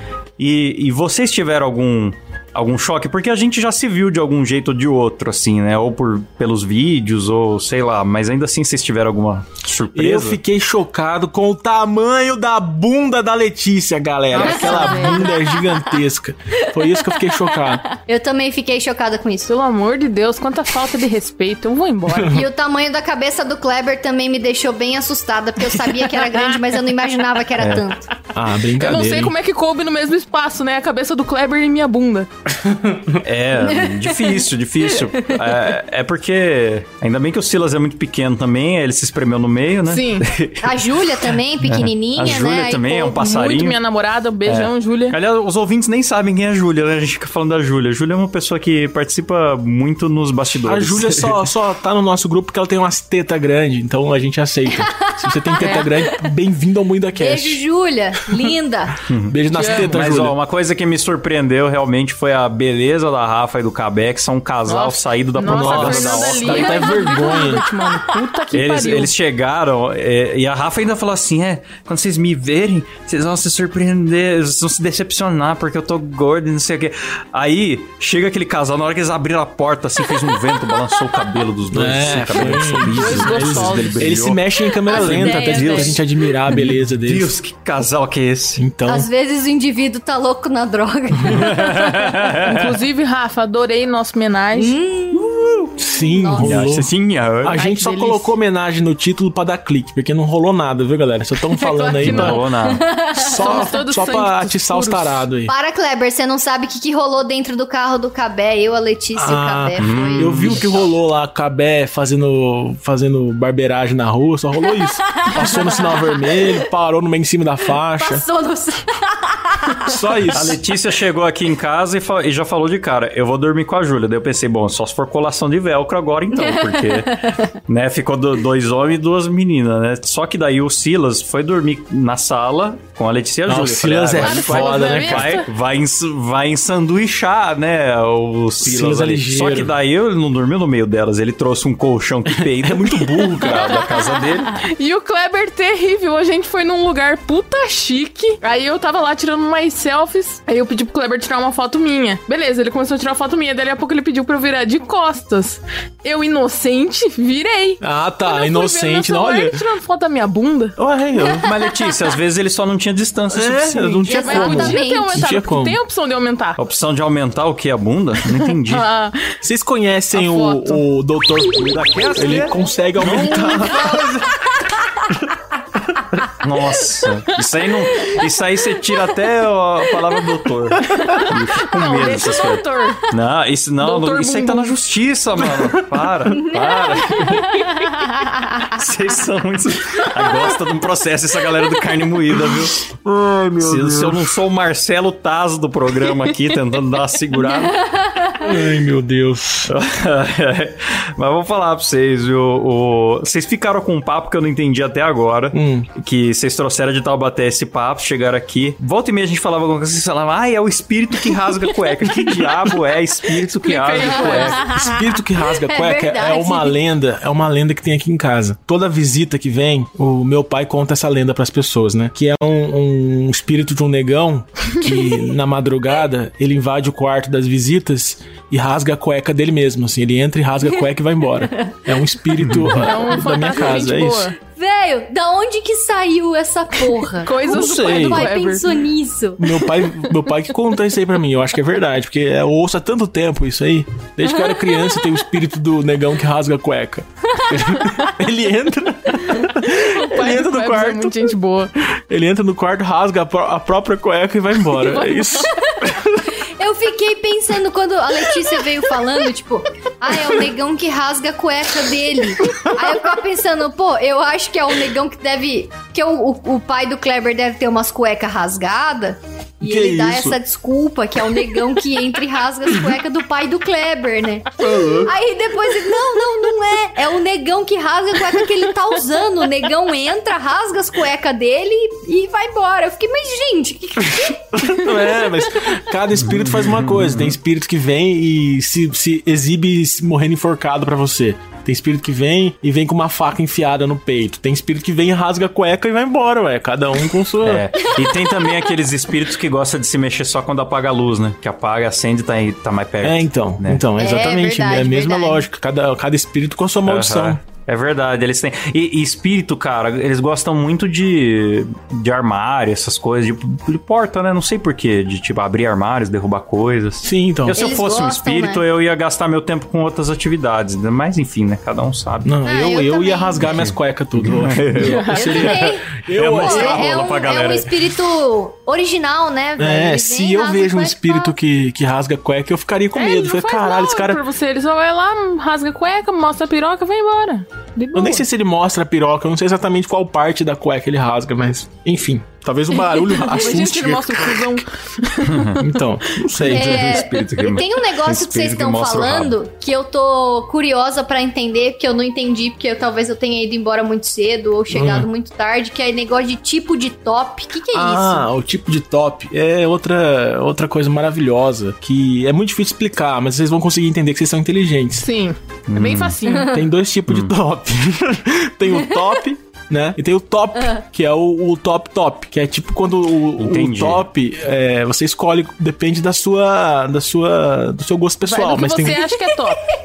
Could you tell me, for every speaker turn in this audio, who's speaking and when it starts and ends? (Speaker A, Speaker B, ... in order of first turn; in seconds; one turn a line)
Speaker A: 0.4-10.4
Speaker B: 9.9-17.9
Speaker C: 14.3-15.3
Speaker D: 14.4-15.5
Speaker D: 17.9-19.5
Speaker C: 19.5-22.4
Speaker B: 22.1-22.4
Speaker D: 22.3-28.1
Speaker A: 27.6-27.9
Speaker B: 28.3-29.4
Speaker C: 28.8-32.3
Speaker B: 32.6-33.2
Speaker A: 33.2-43.8
Speaker D: 33.6-34.4
Speaker C: 39.9-40.3
Speaker D: 40.6-43.2
Speaker C: 43.1-45.2
Speaker A: 44.5-51.4
Speaker B: 50.5-57.6
Speaker D: 55.1-56.1
Speaker C: 55.6-55.9
Speaker D: 57.2-59.0
Speaker A: 59.1-66.9
Speaker B: 59.3-60.4
Speaker C: 59.5-60.0
Speaker C: 64.7-69.1
Speaker B: 65.4-67.7
Speaker A: 68.5-88.6
Speaker B: 81.7-87.3
Speaker C: 82.9-84.1
Speaker D: 84.9-86.0
Speaker B: 88.6-89.1
Speaker D: 88.9-91.7
Speaker A: 91.3-92.7
Speaker C: 92.4-94.7
Speaker D: 94.5-95.5
Speaker A: 95.1-95.7
Speaker B: 95.8-96.9
Speaker D: 96.1-96.6
Speaker A: 96.4-97.6
Speaker B: 97.4-102.4
Speaker C: 97.6-98.3
Speaker C: 101.6-102.5
Speaker A: 102.0-102.9
Speaker D: 102.7-103.7
Speaker C: 103.2-105.3
Speaker B: 103.2-105.5
Speaker D: 105.5-110.6
Speaker B: 109.1-118.3
Speaker A: 109.8-110.7
Speaker D: 115.2-116.2
Speaker D: 118.0-120.0
Speaker B: 119.8-120.6
Speaker A: 120.3-144.5
Speaker D: 126.4-127.4
Speaker B: 133.4-135.4
Speaker C: 134.2-135.5
Speaker B: 138.6-139.7
Speaker B: 142.5-143.7
Speaker C: 144.6-160.8
Speaker B: 157.8-159.6
Speaker B: 160.8-161.5
Speaker A: 161.4-164.1
Speaker B: 163.3-165.8
Speaker C: 164.1-166.6
Speaker D: 164.1-165.2
Speaker A: 166.6-168.9
Speaker C: 168.7-169.2
Speaker B: 169.4-174.3
Speaker C: 170.1-170.8
Speaker A: 171.5-174.1
Speaker A: 176.2-187.6
Speaker C: 181.3-183.1
Speaker C: 183.8-184.7
Speaker D: 186.4-188.0
Speaker A: 188.7-192.9
Speaker B: 192.5-194.4
Speaker A: 193.6-197.8
Speaker B: 198.4-199.7
Speaker A: 199.7-214.6
Speaker B: 205.5-205.9
Speaker C: 213.6-214.8
Speaker D: 214.1-214.9
Speaker B: 214.7-234.3
Speaker D: 215.5-216.8
Speaker A: 232.5-232.8
Speaker C: 232.8-234.3
Speaker D: 234.4-239.6
Speaker C: 236.8-238.7
Speaker B: 237.4-238.3
Speaker B: 239.4-256.3
Speaker C: 249.4-251.7
Speaker C: 254.8-255.5
Speaker D: 256.4-284.4
Speaker B: 262.4-262.9
Speaker B: 269.6-270.4
Speaker B: 274.6-275.1
Speaker B: 284.1-297.7
Speaker A: 286.2-287.4
Speaker A: 297.4-303.8
Speaker B: 303.0-307.4
Speaker D: 304.0-305.4
Speaker A: 306.9-322.3
Speaker B: 317.0-317.6
Speaker D: 317.5-318.6
Speaker B: 322.2-327.1
Speaker D: 322.4-323.4
Speaker A: 323.4-327.9
Speaker C: 324.8-325.3
Speaker D: 325.1-331.4
Speaker B: 329.6-334.2
Speaker C: 332.9-338.2
Speaker B: 337.9-344.6
Speaker C: 343.2-345.5
Speaker A: 345.3-345.6
Speaker B: 345.6-347.0
Speaker A: 346.3-349.3
Speaker D: 346.5-358.3
Speaker B: 354.7-355.1
Speaker B: 357.7-365.1
Speaker C: 365.0-366.6
Speaker A: 365.7-366.2
Speaker B: 366.3-379.1
Speaker A: 367.1-367.3
Speaker A: 373.4-374.1
Speaker C: 378.2-379.8